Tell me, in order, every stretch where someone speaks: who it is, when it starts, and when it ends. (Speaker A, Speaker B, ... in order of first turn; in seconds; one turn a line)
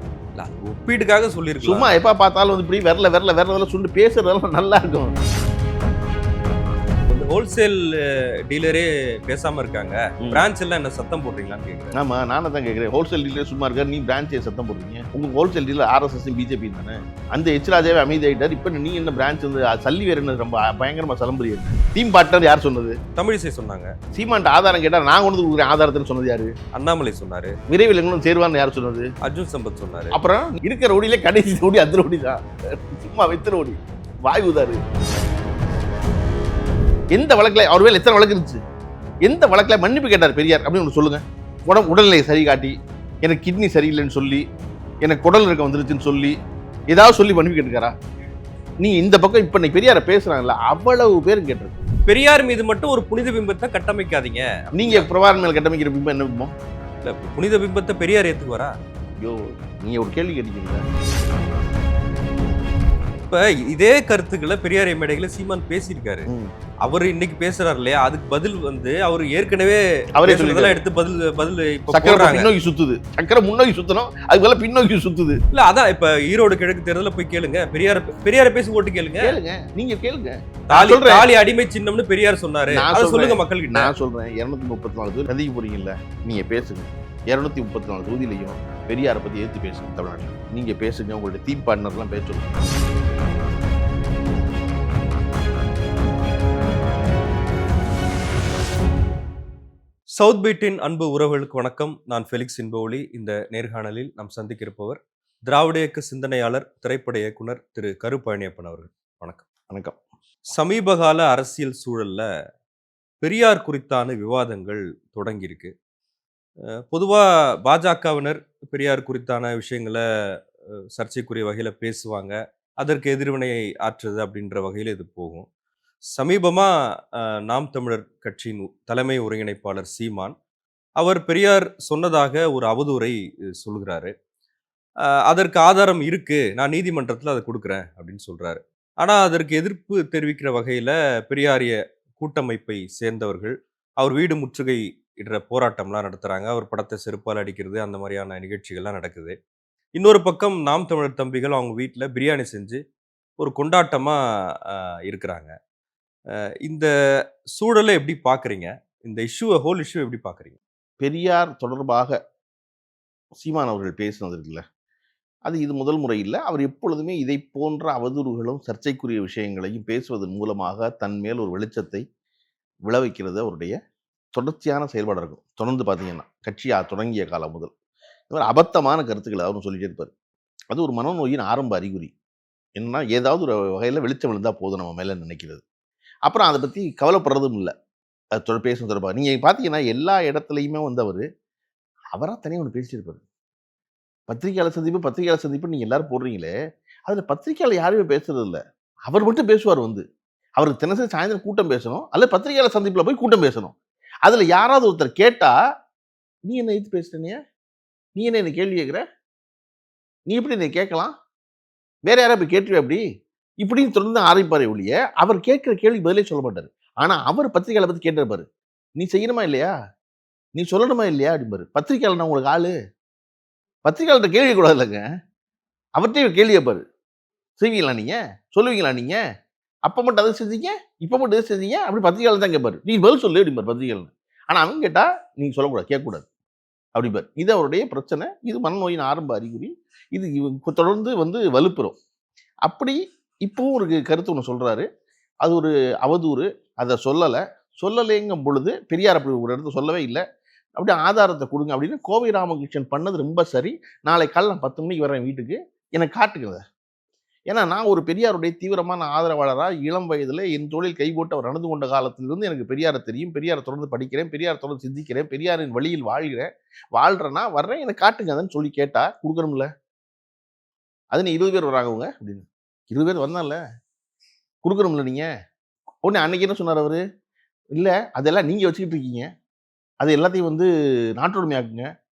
Speaker A: 0.3-1.9
Speaker B: 1.6-5.1
Speaker A: 7.1-11.9
Speaker B: 11.9-23.0
Speaker A: 23.1-23.9
Speaker B: 24.1-26.5
Speaker A: 26.7-27.5
Speaker B: 27.7-29.1
Speaker A: 29.2-30.2
Speaker B: 30.1-34.8
Speaker B: 37.1-38.6
Speaker B: 39.2-44.4
Speaker B: 45.0-46.4
Speaker B: 46.9-47.9
Speaker B: 48.8-51.8
Speaker A: 52.1-55.1
Speaker B: 54.8-56.5
Speaker A: 57.0-58.7
Speaker B: 59.2-60.8
Speaker A: 63.3-66.3
Speaker A: 66.8-72.5
Speaker B: 70.2-70.8
Speaker B: 71.9-75.4
Speaker A: 75.5-79.3
Speaker B: 79.2-81.3
Speaker A: 80.7-83.9
Speaker B: 82.7-92.5
Speaker A: 100.2-109.4
Speaker B: 109.7-110.0
Speaker A: 110.5-112.2
Speaker A: 113.2-115.7
Speaker A: 116.7-120.0
Speaker A: 120.9-125.5
Speaker A: 126.1-130.3
Speaker A: 131.0-134.1
Speaker A: 135.2-149.3
Speaker A: 149.9-152.8
Speaker A: 153.4-155.5
Speaker A: 156.6-156.9
Speaker A: 157.5-160.6
Speaker B: 161.0-162.2
Speaker B: 163.4-164.6
Speaker B: 165.5-172.0
Speaker B: 172.9-173.8
Speaker B: 174.3-177.7
Speaker B: 178.3-180.1
Speaker B: 180.7-182.1
Speaker B: 182.8-185.6
Speaker B: 186.2-187.7
Speaker B: 188.3-191.2
Speaker B: 192.1-193.2
Speaker B: 194.3-196.5
Speaker B: 197.1-200.0
Speaker B: 200.6-205.5
Speaker B: 206.4-207.4
Speaker B: 208.2-209.0
Speaker B: 210.3-211.1
Speaker B: 212.1-213.0
Speaker B: 213.6-218.4
Speaker B: 219.0-219.7
Speaker B: 220.6-222.7
Speaker B: 223.8-225.0
Speaker B: 226.0-226.8
Speaker B: 227.6-229.2
Speaker B: 229.9-236.2
Speaker B: 236.9-241.9
Speaker B: 242.6-244.8
Speaker B: 245.4-250.2
Speaker B: 250.8-256.6
Speaker B: 257.5-269.7
Speaker B: 271.1-273.6
Speaker B: 274.6-275.3
Speaker B: 276.0-277.0
Speaker B: 277.7-279.3
Speaker B: 280.0-280.7
Speaker B: 281.2-281.8